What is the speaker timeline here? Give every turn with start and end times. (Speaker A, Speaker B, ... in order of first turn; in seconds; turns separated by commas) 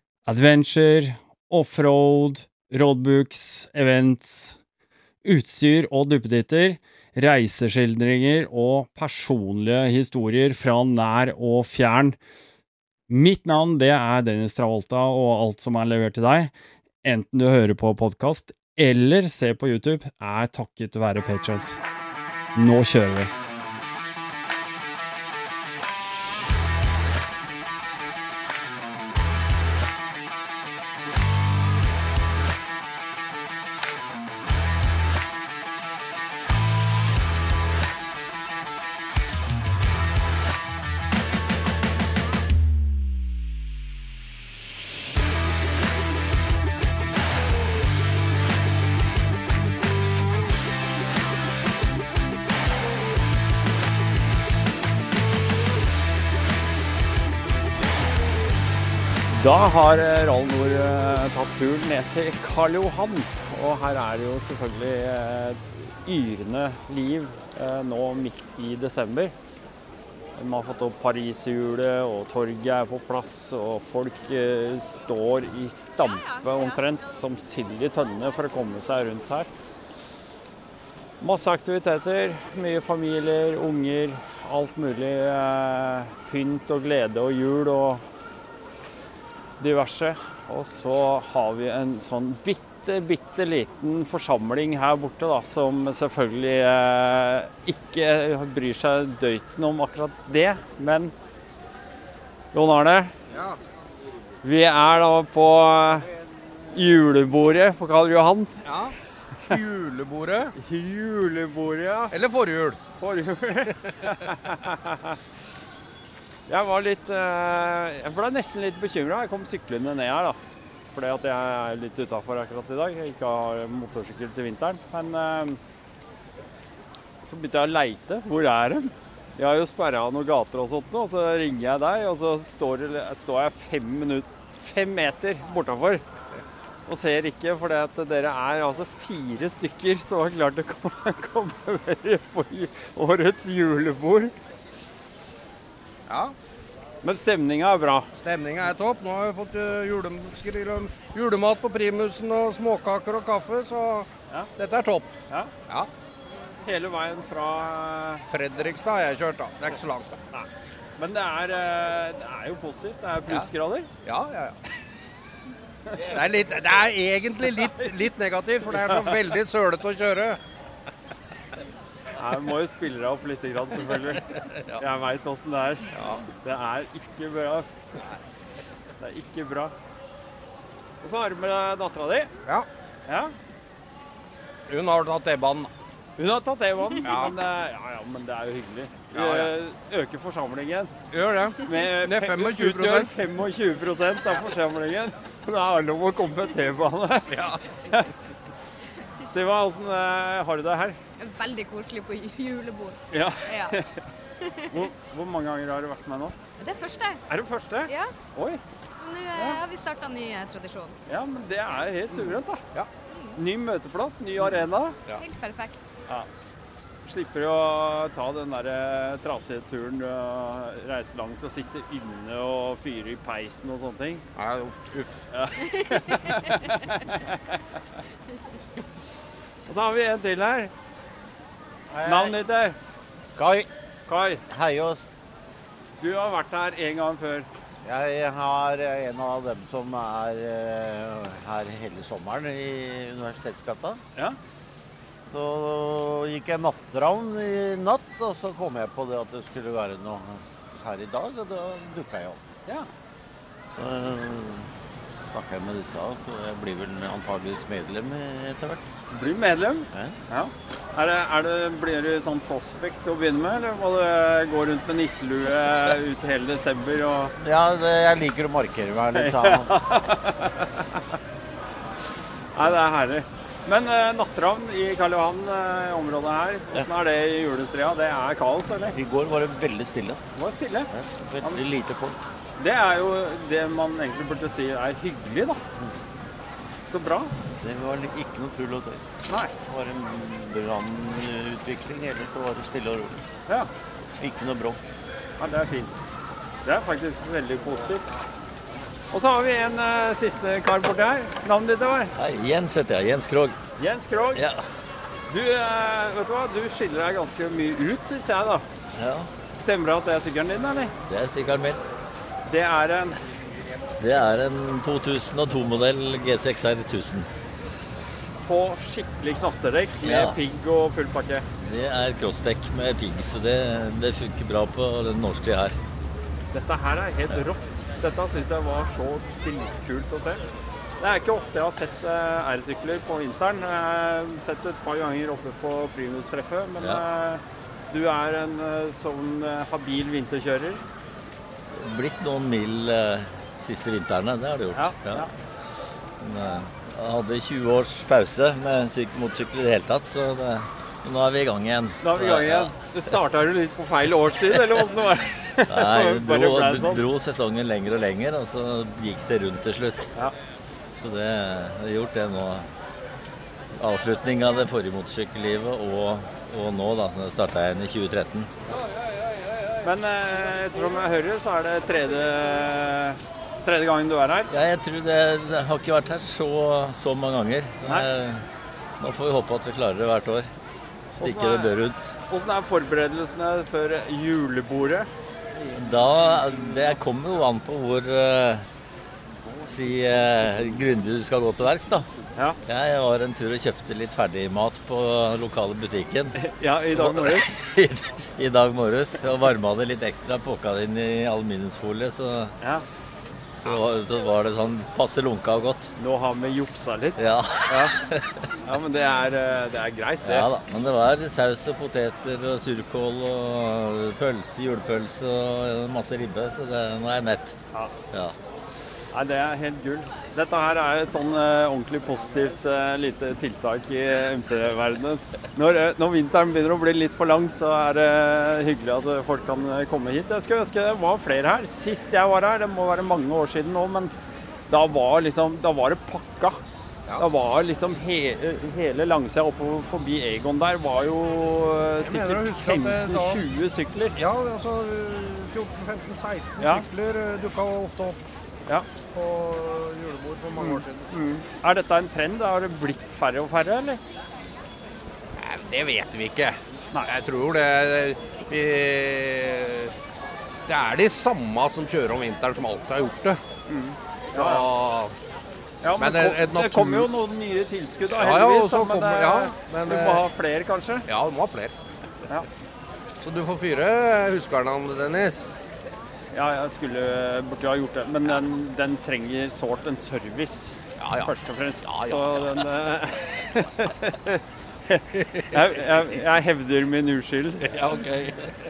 Speaker A: 0.2-4.6, Speaker A: 5.2-12.2, Speaker A: 13.1-16.5, Speaker A: 17.0-21.8, Speaker A: 22.5-23.3, Speaker A: 59.3-69.3, Speaker A: 70.3-79.5, Speaker B: 76.0-76.4, Speaker A: 81.2-88.0, Speaker A: 89.6-101.1, Speaker A: 102.5-103.1, Speaker C: 103.3-103.6, Speaker A: 104.4-106.1, Speaker A: 106.7-108.5, Speaker C: 108.6-110.5, Speaker A: 110.6-112.1, Speaker C: 112.1-112.8, Speaker A: 113.0-115.2, Speaker A: 116.5-120.4, Speaker A: 120.9-125.6, Speaker A: 127.2-136.0, Speaker A: 136.9-144.3, Speaker C: 146.1-146.3, Speaker A: 147.0-148.1, Speaker C: 148.2-155.1, Speaker A: 156.6-158.2, Speaker C: 158.3-160.2, Speaker A: 160.3-163.9, Speaker C: 164.0-164.6, Speaker C: 165.9-170.4, Speaker A: 168.8-169.1, Speaker A: 172.1-177.7, Speaker C: 174.4-174.8, Speaker C: 175.9-176.2, Speaker A: 179.0-179.7, Speaker A: 181.0-182.3, Speaker A: 183.1-183.3, Speaker C: 184.7-185.7, Speaker A: 186.2-190.9, Speaker C: 187.0-187.3, Speaker C: 189.1-189.5, Speaker C: 191.1-193.1, Speaker A: 191.6-198.1, Speaker C: 197.3-197.6, Speaker A: 199.2-201.0, Speaker B: 201.2-203.8, Speaker A: 203.1-204.0, Speaker B: 204.4-204.9, Speaker A: 204.7-206.3, Speaker B: 206.6-207.2, Speaker A: 207.3-208.6, Speaker B: 207.9-208.1, Speaker B: 208.9-210.9, Speaker A: 209.3-209.6, Speaker A: 211.1-212.6, Speaker C: 212.1-212.9, Speaker B: 213.1-213.4, Speaker A: 213.3-215.0, Speaker B: 215.1-215.8, Speaker A: 217.0-224.2, Speaker C: 224.3-225.2, Speaker A: 225.3-227.6, Speaker A: 229.7-230.7, Speaker D: 231.9-232.4, Speaker A: 232.0-232.8, Speaker D: 233.3-233.7, Speaker A: 234.1-234.4, Speaker D: 234.5-235.1, Speaker A: 236.0-237.5, Speaker D: 237.8-244.0, Speaker D: 245.3-252.4, Speaker D: 253.7-254.7, Speaker D: 255.3-258.9, Speaker A: 259.1-267.3, Speaker D: 267.4-269.7, Speaker A: 269.1-271.0, Speaker A: 272.5-278.9, Speaker D: 278.9-280.2, Speaker A: 280.4-280.9, Speaker D: 280.9-282.2, Speaker A: 282.6-285.6, Speaker A: 286.9-287.3, Speaker D: 287.6-289.0, Speaker A: 289.3-289.5, Speaker D: 289.7-293.2, Speaker D: 294.2-294.8, Speaker A: 295.4-296.0, Speaker A: 296.6-298.1, Speaker A: 299.1-302.1, Speaker E: 302.1-303.6, Speaker A: 303.8-304.4, Speaker E: 304.3-304.6, Speaker A: 305.3-308.6, Speaker E: 308.9-309.3, Speaker A: 309.5-310.9, Speaker E: 311.1-311.8, Speaker A: 312.4-313.2, Speaker E: 314.0-317.3, Speaker A: 318.4-321.4, Speaker E: 320.0-320.4, Speaker E: 321.6-325.8, Speaker A: 326.5-330.4, Speaker A: 331.0-340.8, Speaker E: 341.7-345.3, Speaker A: 344.7-345.3, Speaker E: 346.2-352.7, Speaker A: 352.0-357.0, Speaker E: 355.7-360.1, Speaker E: 360.9-362.7, Speaker E: 363.8-368.5, Speaker A: 369.8-374.5, Speaker E: 374.5-378.4, Speaker E: 379.0-380.5, Speaker A: 381.2-381.7, Speaker E: 381.2-382.1, Speaker A: 382.3-385.1, Speaker D: 385.5-386.9, Speaker E: 385.8-388.6, Speaker D: 389.4-390.8, Speaker E: 389.6-392.1, Speaker E: 392.6-396.4, Speaker A: 396.4-397.5, Speaker E: 396.9-402.5, Speaker E: 403.6-405.9, Speaker A: 406.0-407.9, Speaker E: 407.2-408.4, Speaker A: 408.6-410.5, Speaker E: 410.2-417.6, Speaker A: 419.1-434.1, Speaker A: 434.7-436.6, Speaker A: 437.2-444.2, Speaker C: 442.0-443.4, Speaker C: 444.1-448.2, Speaker A: 446.6-446.9, Speaker C: 449.1-451.1, Speaker A: 450.6-454.0, Speaker C: 455.4-459.9, Speaker C: 460.7-463.4, Speaker A: 463.7-464.6, Speaker C: 464.3-465.1, Speaker A: 465.8-471.1, Speaker C: 466.0-467.1, Speaker C: 468.1-470.2, Speaker C: 471.1-471.7, Speaker C: 473.2-475.5, Speaker A: 476.3-487.8, Speaker C: 481.0-482.6, Speaker C: 485.2-485.5, Speaker C: 487.6-488.5